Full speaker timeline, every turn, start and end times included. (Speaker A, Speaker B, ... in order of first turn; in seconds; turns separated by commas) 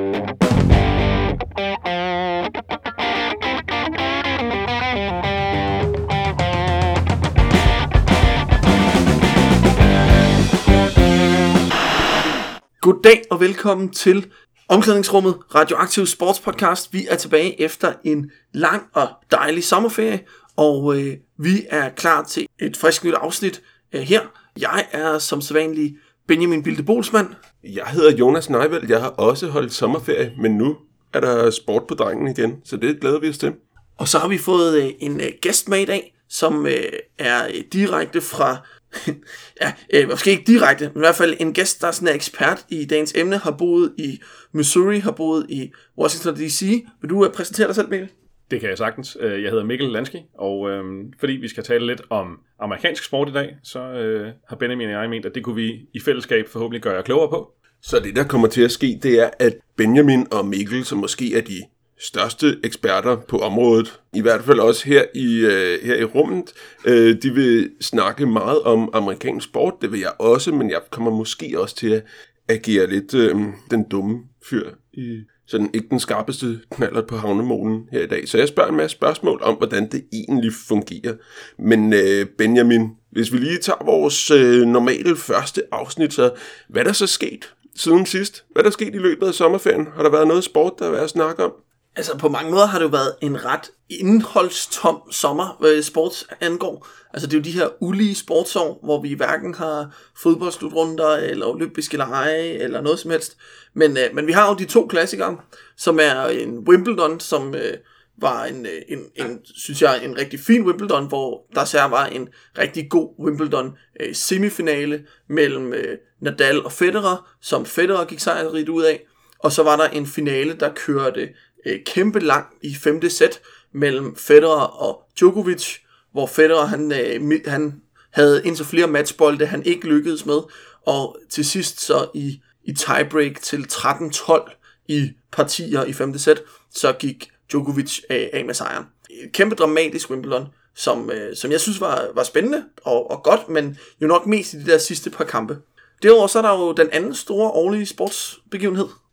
Speaker A: 12.8-27.4, Speaker B: 27.6-33.6, Speaker A: 34.0-48.1, Speaker C: 48.5-57.5, Speaker B: 57.8-91.5, Speaker A: 91.9-148.9